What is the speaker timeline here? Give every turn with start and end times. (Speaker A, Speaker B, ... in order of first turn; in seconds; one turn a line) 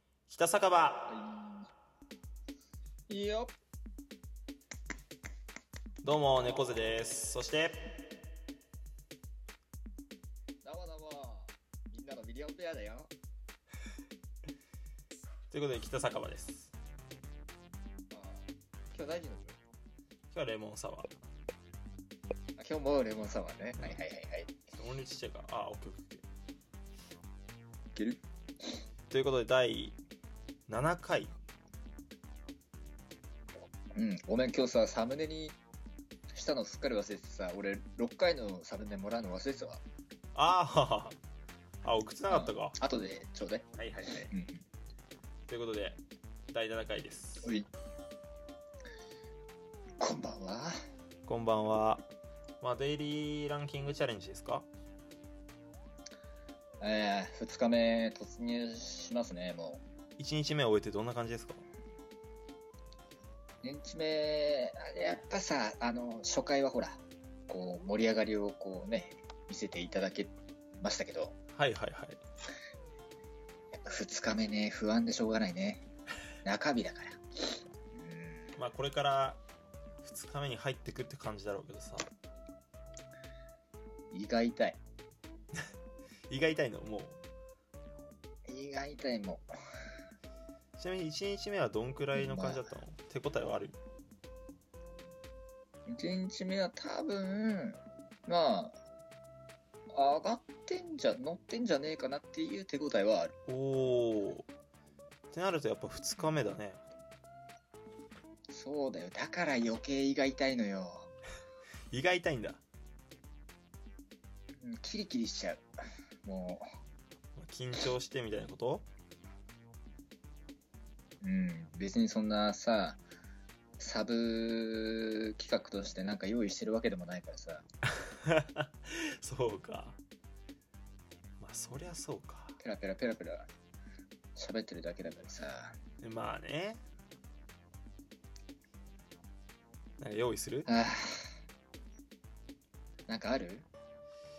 Speaker A: 0.3-1.1
Speaker B: 1.1-1.7
Speaker B: 3.1-3.5
Speaker A: 6.0-7.8
Speaker B: 10.6-13.1
Speaker A: 15.5-16.7
Speaker B: 18.1-19.6
Speaker A: 20.3-21.1
Speaker B: 22.6-24.5
Speaker A: 24.7-26.2
Speaker B: 27.9-28.2
Speaker A: 29.1-30.0
Speaker A: 30.7-31.4
Speaker B: 34.0-35.6
Speaker B: 36.3-39.8
Speaker A: 40.3-41.2
Speaker A: 41.8-42.8
Speaker B: 42.3-43.7
Speaker A: 43.7-44.3
Speaker B: 44.3-44.6
Speaker A: 45.5-46.0
Speaker A: 46.5-47.5
Speaker B: 47.4-47.7
Speaker B: 50.0-50.7
Speaker A: 51.2-52.0
Speaker A: 52.6-54.7
Speaker B: 56.8-59.8
Speaker A: 60.2-61.6
Speaker B: 63.6-71.3
Speaker A: 71.5-72.2
Speaker B: 73.7-75.8
Speaker B: 76.4-77.2
Speaker B: 77.9-78.5
Speaker A: 78.6-79.4
Speaker A: 80.0-82.1
Speaker B: 84.1-84.8
Speaker A: 86.3-87.2
Speaker B: 88.5-89.5
Speaker A: 90.8-93.8
Speaker B: 92.1-92.6
Speaker B: 95.9-98.8
Speaker B: 99.9-103.3
Speaker A: 103.5-104.5
Speaker A: 105.3-106.8
Speaker B: 108.5-111.1
Speaker A: 111.9-112.6
Speaker B: 114.6-115.6
Speaker B: 116.2-116.6
Speaker A: 117.4-118.9
Speaker B: 121.2-123.0
Speaker B: 123.8-127.7
Speaker A: 127.9-130.0
Speaker A: 131.4-132.6
Speaker B: 132.6-133.5
Speaker B: 134.3-135.8
Speaker A: 136.0-136.8
Speaker A: 140.0-140.7
Speaker B: 140.7-141.3
Speaker B: 143.1-143.7